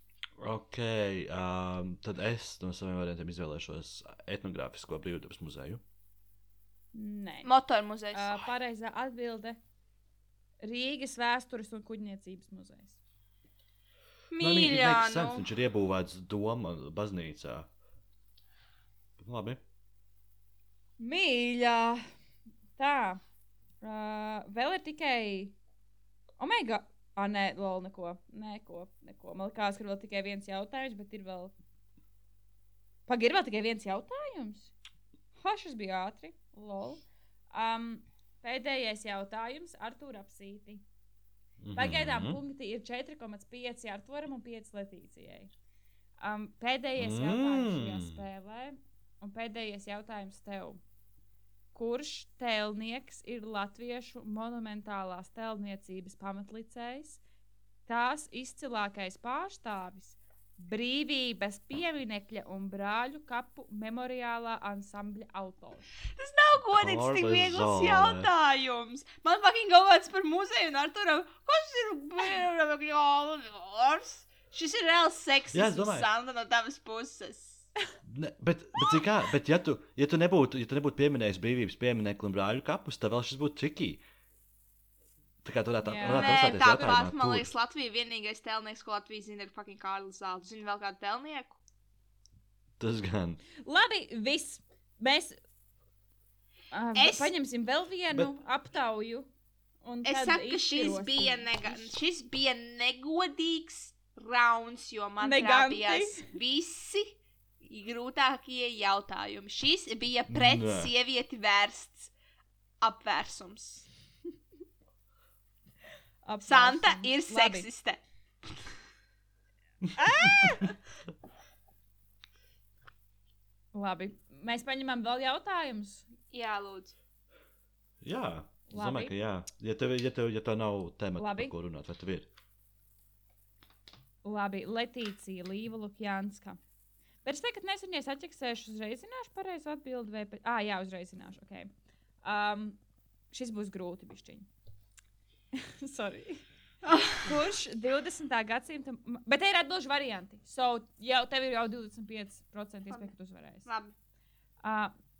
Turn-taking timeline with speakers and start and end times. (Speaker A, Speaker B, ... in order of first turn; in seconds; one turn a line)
Speaker A: 0.4-5.8
Speaker B: 6.9-7.5
Speaker C: 7.4-8.3
Speaker B: 8.1-9.6
Speaker B: 10.6-13.0
Speaker C: 14.3-15.4
Speaker A: 14.4-17.7
Speaker A: 19.2-19.6
Speaker B: 21.0-22.0
Speaker B: 22.8-23.2
Speaker B: 23.8-25.5
Speaker B: 26.4-31.5
Speaker B: 33.1-34.7
Speaker B: 35.4-40.8
Speaker A: 41.6-42.4
Speaker B: 41.7-45.5
Speaker B: 46.2-50.8
Speaker A: 47.0-48.2
Speaker B: 51.7-57.2
Speaker B: 57.9-65.9
Speaker C: 66.1-77.7
Speaker A: 66.8-68.3
Speaker A: 75.5-76.1
Speaker A: 78.1-84.0
Speaker A: 85.4-87.5
Speaker B: 85.8-87.0
Speaker C: 86.0-91.6
Speaker A: 92.8-93.4
Speaker B: 93.6-95.4
Speaker B: 96.7-99.3
Speaker C: 96.9-97.3
Speaker B: 99.8-101.9
Speaker C: 100.0-112.1
Speaker B: 105.2-106.2
Speaker A: 110.3-110.9
Speaker C: 112.8-113.8
Speaker B: 116.2-117.7
Speaker C: 116.4-118.6
Speaker A: 119.8-120.7
Speaker B: 120.0-120.7
Speaker B: 123.7-126.1
Speaker C: 126.3-126.9
Speaker A: 128.0-132.3
Speaker B: 128.7-129.1
Speaker B: 131.2-131.5
Speaker B: 134.2-136.6
Speaker B: 137.2-141.7
Speaker B: 142.2-142.8
Speaker B: 143.3-144.5
Speaker B: 145.5-146.4
Speaker C: 146.8-147.2
Speaker B: 147.2-153.7
Speaker C: 153.6-153.9
Speaker B: 154.6-154.9